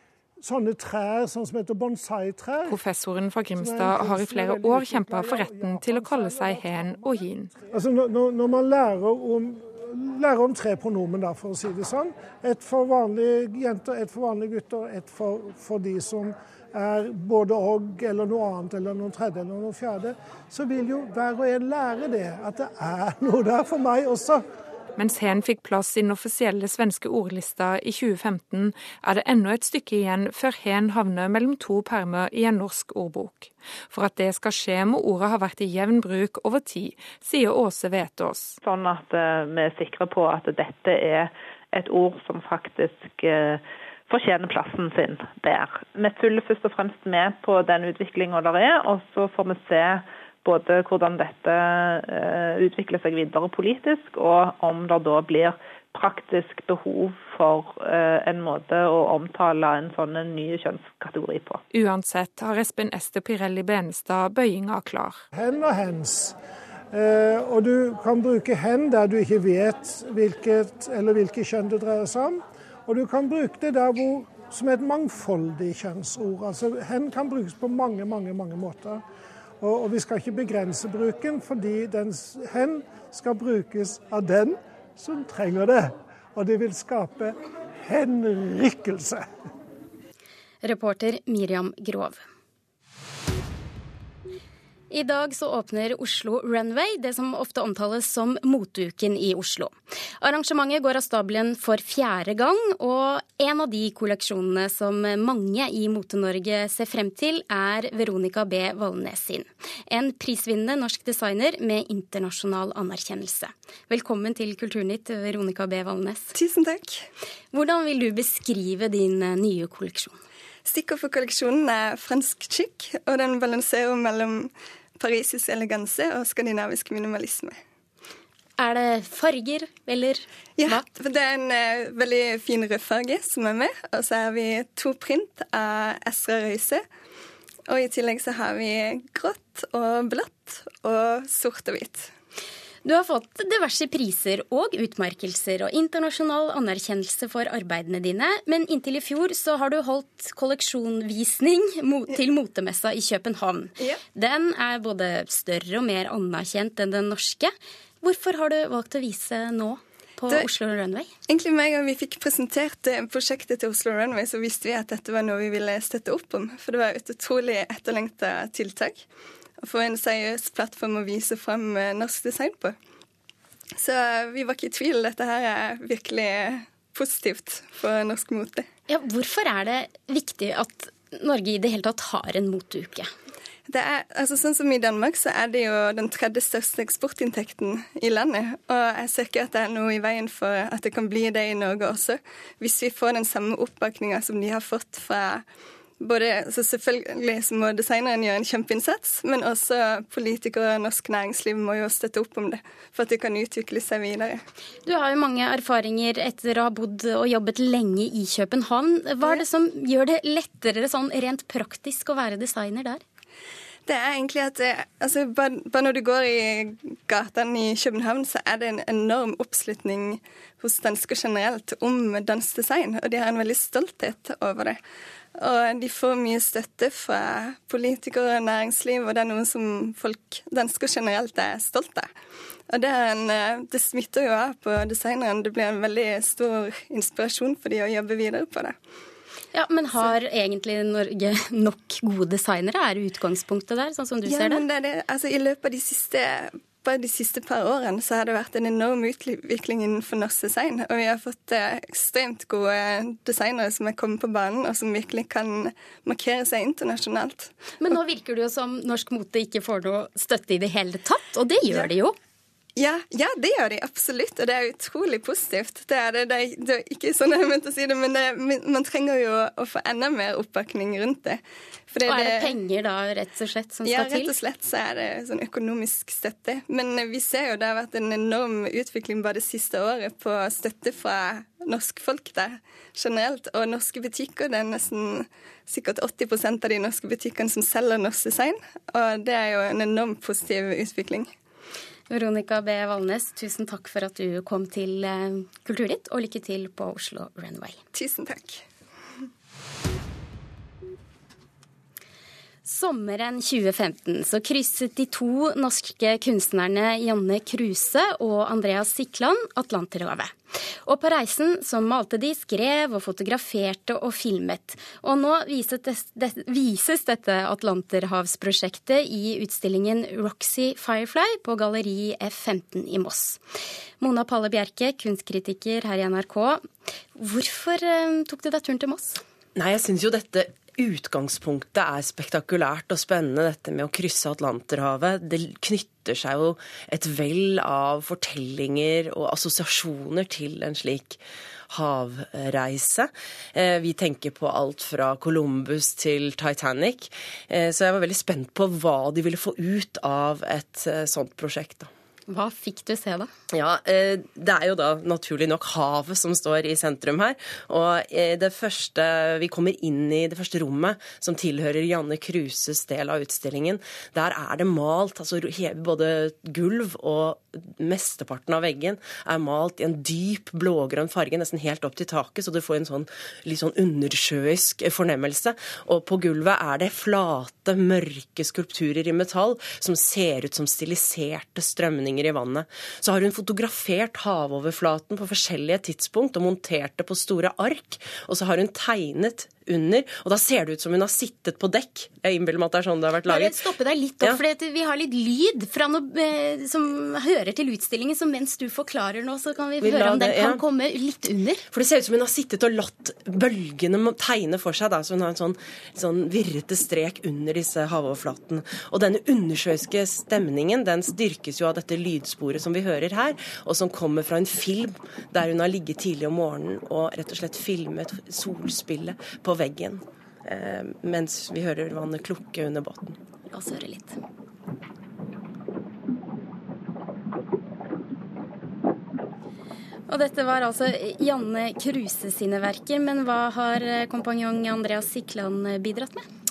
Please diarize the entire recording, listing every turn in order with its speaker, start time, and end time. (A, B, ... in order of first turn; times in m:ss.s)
0:00.4-0:02.8 A
0:02.7-0:07.5 B
0:03.5-0:24.4 A
0:25.0-0:38.6 B
0:38.6-1:01.6 C
1:01.7-1:05.2 B
1:05.3-1:06.4 A
1:06.9-1:19.0 A
1:19.6-1:29.3 A
1:30.6-1:32.2 D
1:34.9-1:56.3 D
1:56.3-1:57.1 E
1:57.5-2:00.2 D
2:00.7-2:07.6 E
2:08.6-2:10.8 D
2:10.6-2:16.9 E
2:17.7-2:22.1 E
2:22.8-2:41.1 D
2:41.3-2:49.0 E
2:49.6-2:52.8 E
2:53.8-2:58.7 E
2:58.9-3:03.1 D
3:03.7-3:15.4 E
3:16.0-3:24.4 E
3:24.9-3:33.0 D
3:33.9-3:44.8 E
3:45.4-3:52.1 E
3:52.7-3:58.8 E
3:59.5-4:04.6 D
4:04.3-4:17.5 E
4:17.8-4:22.2 D
4:22.8-4:32.5 E
4:32.0-4:34.3 D
4:33.8-4:51.3 E
4:52.1-4:57.8 D
4:57.9-4:58.6 E
5:02.6-5:10.3 D
5:10.8-5:23.4 D
5:24.0-5:26.6 D
5:27.2-5:29.2 D
5:29.6-5:51.9 F
5:52.3-5:53.3 D
5:53.5-6:33.7 F
6:33.3-6:41.6 D
6:39.8-6:40.6 F
6:41.7-7:03.2 F
7:03.5-7:04.2 D
7:10.1-7:16.2 D